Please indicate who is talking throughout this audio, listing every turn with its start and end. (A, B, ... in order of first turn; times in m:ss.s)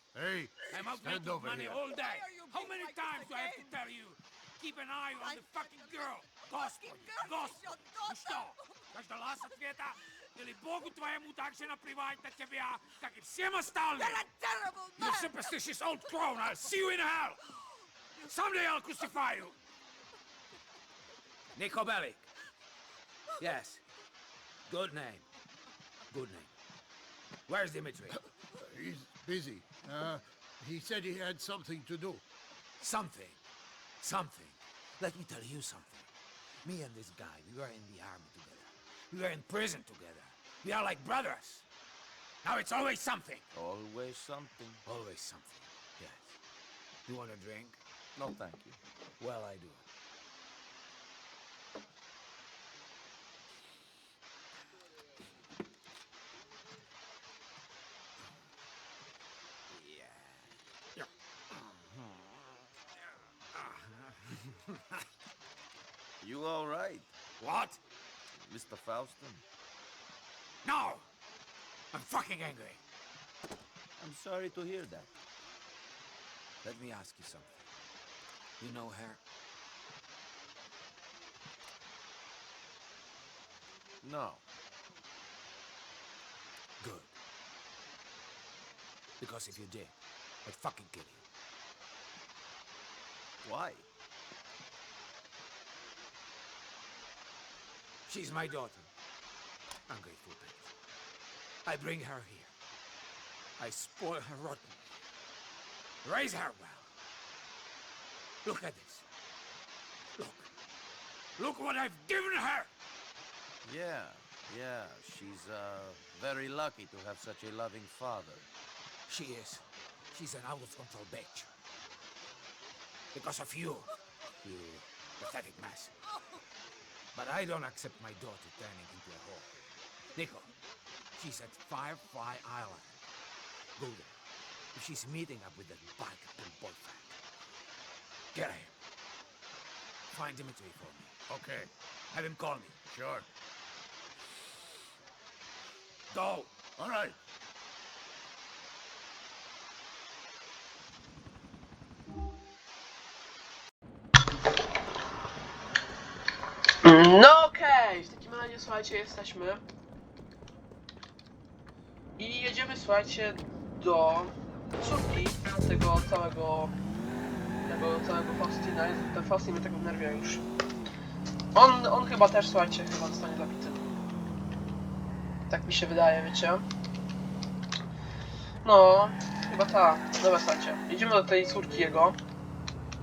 0:00.1-0:01.8 A
0:00.7-0:14.3 B
0:01.8-0:03.7 C
0:05.2-0:06.0 C
0:06.6-0:08.6 C
0:14.0-0:15.5 C
0:15.0-0:17.4 B
0:18.2-0:19.6 B
0:21.5-0:22.3 B
0:23.4-0:23.8 B
0:24.7-0:25.2 B
0:26.1-0:26.5 B
0:27.5-0:28.2 B
0:28.6-0:32.2 A
0:32.8-0:33.4 B
0:34.0-0:36.1 B
0:36.6-0:41.7 B
0:42.4-0:43.5 B
0:43.5-0:44.8 D
0:44.9-0:46.4 B
0:47.1-0:47.8 B
0:48.2-0:48.8 D
0:49.2-0:49.8 B
0:59.7-1:01.1 B
1:01.9-1:02.3 D
1:03.5-1:05.0 B
1:06.2-1:07.1 D
1:07.4-1:07.8 B
1:08.4-1:09.4 D
1:10.6-1:11.1 B
1:11.9-1:12.8 B
1:14.0-1:15.1 D
1:16.6-1:17.6 B
1:18.6-1:19.2 B
1:24.0-1:24.4 D
1:26.8-1:27.1 B
1:29.2-1:29.9 B
1:30.4-1:31.2 B
1:33.4-1:33.9 D
1:38.1-1:38.9 B
1:39.9-1:40.7 B
1:41.6-1:42.5 B
1:43.6-1:44.8 B
1:46.0-1:46.9 B
1:48.4-1:49.1 B
1:50.2-1:50.5 B
1:51.4-1:52.7 B
1:53.6-1:58.5 D
1:59.1-2:01.6 B
2:03.1-2:03.9 B
2:04.4-2:06.0 B
2:07.1-2:09.5 B
2:10.2-2:10.5 B
2:11.2-2:13.0 B
2:13.8-2:14.2 B
2:14.7-2:17.2 B
2:18.3-2:18.7 B
2:20.1-2:23.3 B
2:26.1-2:26.5 B
2:36.8-2:39.6 E
2:42.2-2:46.7 E
2:47.6-2:50.4 E
2:51.5-2:53.8 E
2:55.5-2:56.6 E
2:58.6-3:02.2 E